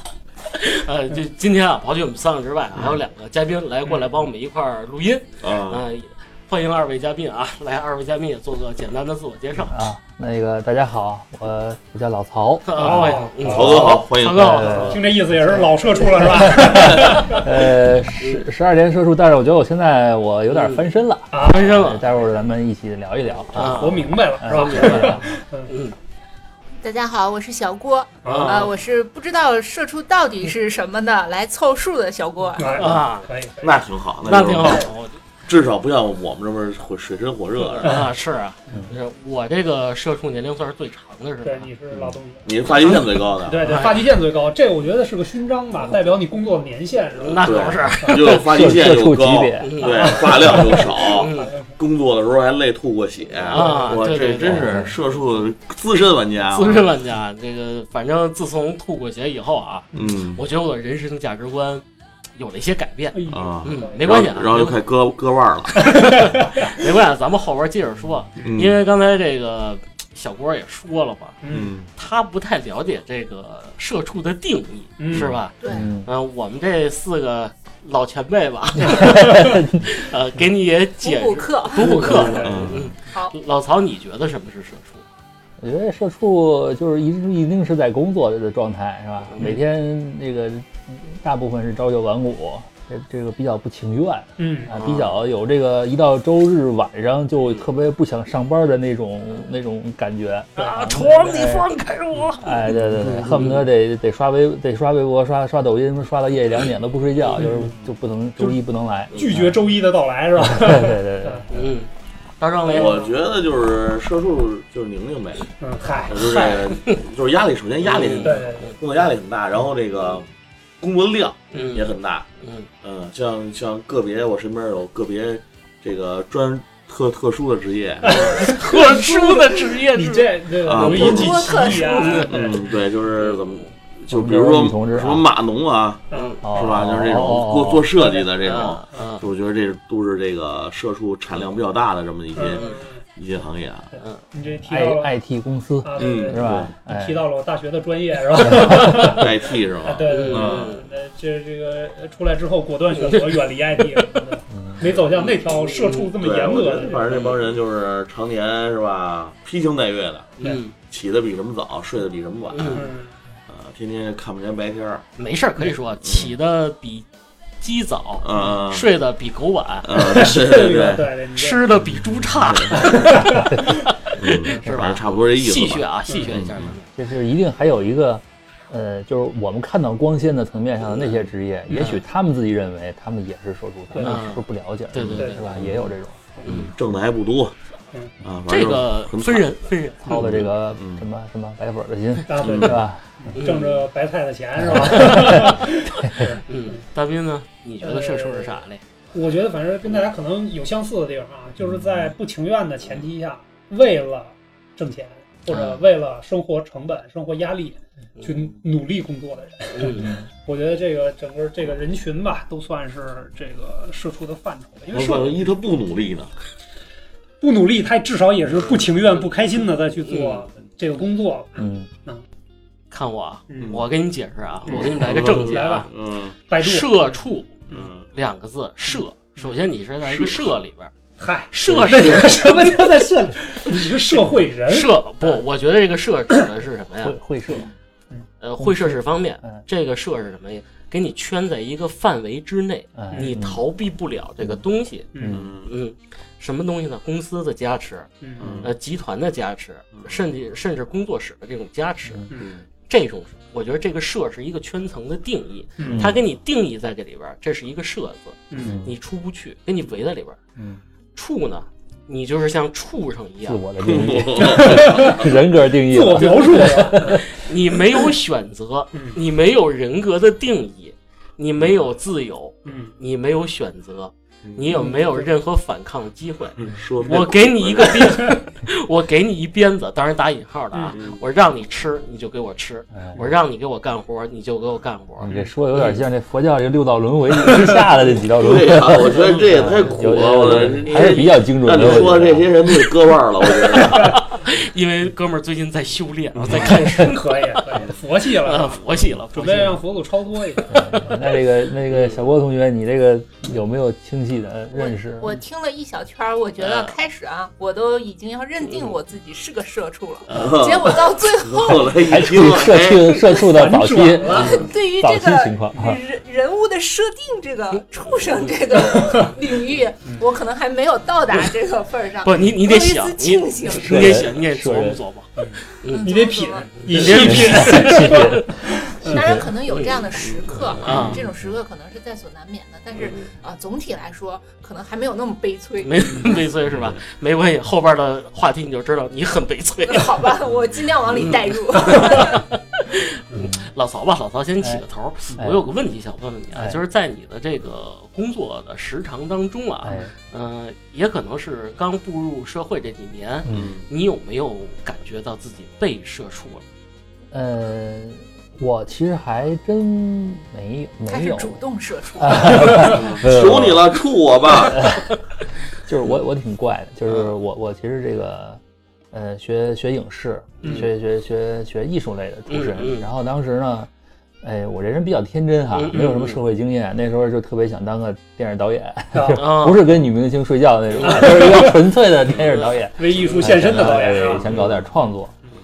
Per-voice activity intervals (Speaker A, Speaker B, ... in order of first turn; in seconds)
Speaker A: 0.5-9.7, 12.6-15.6, 16.5-17.5, 20.5-20.8, 21.4-22.2, 23.5-25.9, 28.2-28.7, 32.8-33.3, 34.2-35.2, 37.8-41.7, 43.6-44.0, 47.2-48.4, 49.6-51.5, 53.5-54.7, 56.5-61.8, 62.4-64.7, 65.9-71.4, 71.9-85.0, 89.3-89.6, 94.7-95.1, 100.6-103.6, 107.2-107.5, 111.5-111.9, 112.4-113.1, 117.8-118.7, 121.5-122.7, 128.1-132.3, 133.2-133.7, 136.1-136.4, 138.4-139.2, 142.5-142.8, 144.0-144.2, 150.1-150.9, 152.9-153.3, 155.1-156.1, 157.1-157.4, 160.4-160.7, 162.5-162.9, 165.2-167.1, 167.6-170.3, 171.3-176.8, 184.0-185.7, 186.4-186.7, 188.5-190.5, 193.3-193.8, 194.8-195.7, 196.3-198.8, 205.5-205.8, 208.2-208.5, 209.7-210.1, 220.1-220.5, 222.9-225.9, 226.6-230.9, 231.5-232.7, 234.7-237.2, 238.4-248.1, 248.6-252.3, 252.9-260.4, 261.1-263.6, 267.0-286.0, 289.2-289.9, 290.8-291.2, 293.5-297.8, 298.4-299.8, 300.6-301.3, 301.9-302.2, 306.6-306.9, 308.6-309.0, 310.2-310.9, 322.2-326.1, 326.7-328.4, 329.7-330.0, 330.8-331.2, 332.9-333.3, 335.8-340.2, 341.1-356.6, 370.6-370.9, 372.5-373.1, 375.7-376.4, 379.3-379.8, 382.4-383.4
Speaker B: 5.4-5.8, 13.4-14.9, 33.6-34.9, 35.4-38.0, 42.4-43.8, 47.4-56.9, 59.9-60.4, 63.3-66.3, 68.4-68.8, 71.5-71.9, 75.1-75.4, 82.0-82.9, 112.7-115.5, 116.0-120.2, 120.8-122.3, 122.8-128.6, 130.6-143.9, 146.0-146.7, 148.9-150.7, 156.2-162.9, 163.5-165.1, 166.0-166.3, 168.2-168.9, 169.8-171.1, 171.9-173.2, 174.1-176.8, 186.4-187.5, 188.2-189.5, 190.1-191.0, 192.4-192.8, 214.9-216.3, 223.6-223.9, 224.7-226.3, 227.7-228.1, 230.1-230.5, 231.9-232.2, 245.3-245.7, 248.4-248.7, 249.9-250.2, 252.3-252.7, 255.8-256.1, 258.6-258.9, 263.8-265.3, 274.4-274.8, 276.6-278.3, 280.9-281.2, 288.4-294.2, 310.3-313.2, 330.2-331.3, 336.7-337.0, 353.5-353.9, 362.7-364.9
Speaker C: 9.6-13.5, 14.3-15.6, 16.2-25.3, 48.3-49.7, 54.5-54.9, 75.7-76.1, 78.8-80.0, 85.6-101.7, 102.3-109.7, 110.4-111.5, 134.1-135.2, 136.4-137.9, 144.7-147.2, 148.4-149.2, 154.5-154.8, 173.5-173.7, 176.9-186.4, 190.1-193.3, 194.6-196.3, 201.6-202.1, 210.0-210.2, 221.6-221.9, 237.0-237.7, 238.6-239.6, 242.9-243.6, 245.2-245.5, 255.9-256.2, 258.6-258.9, 260.6-260.8, 263.4-267.2, 282.9-283.2, 285.2-292.5, 300.7-305.4, 311.9-316.0, 323.7-325.0, 327.1-329.5, 343.3-343.7, 345.4-345.6, 346.5-346.8, 349.8-350.1, 353.4-353.7, 357.3-361.6, 362.1-363.9, 364.6-365.1, 365.9-368.6, 369.1-373.9, 374.4-385.3
Speaker D: 12.8-13.9, 14.7-17.5, 21.3-21.7, 23.6-25.7, 28.2-28.7, 32.6-33.8, 34.4-34.8, 41.4-42.5, 43.4-48.2, 49.8-51.7, 53.5-53.9, 63.1-64.1, 65.8-66.6, 71.4-71.7, 75.0-75.3, 81.8-82.7, 94.4-94.7, 100.6-100.9, 107.4-107.7, 109.1-111.5, 112.7-113.1, 115.6-116.7, 118.2-118.7, 128.0-132.7, 136.1-136.4, 137.9-138.6, 142.3-143.0, 144.3-145.1, 145.8-157.1, 162.7-163.2, 169.9-171.6, 172.8-173.7, 183.9-184.2, 192.3-196.8, 197.8-198.6, 199.1-215.4, 217.4-222.2, 223.5-223.8, 224.7-225.9, 226.4-227.1, 229.0-229.5, 231.2-235.4, 245.1-245.4, 248.2-248.5, 255.8-256.1, 258.5-258.8, 264.3-265.3, 265.8-267.3, 268.9-269.2, 272.6-272.9, 274.7-275.3, 278.0-278.4, 287.5-287.8, 296.3-301.1, 313.3-314.7, 325.4-329.3, 379.1-379.4, 381.0-381.9, 382.9-384.5
Speaker E: 26.8-32.9, 75.6-75.9, 81.0-82.5, 83.1-83.3, 130.8-132.4, 304.7-312.2, 314.4-324.3, 325.9-327.3, 329.0-336.4, 339.9-342.4, 361.1-363.1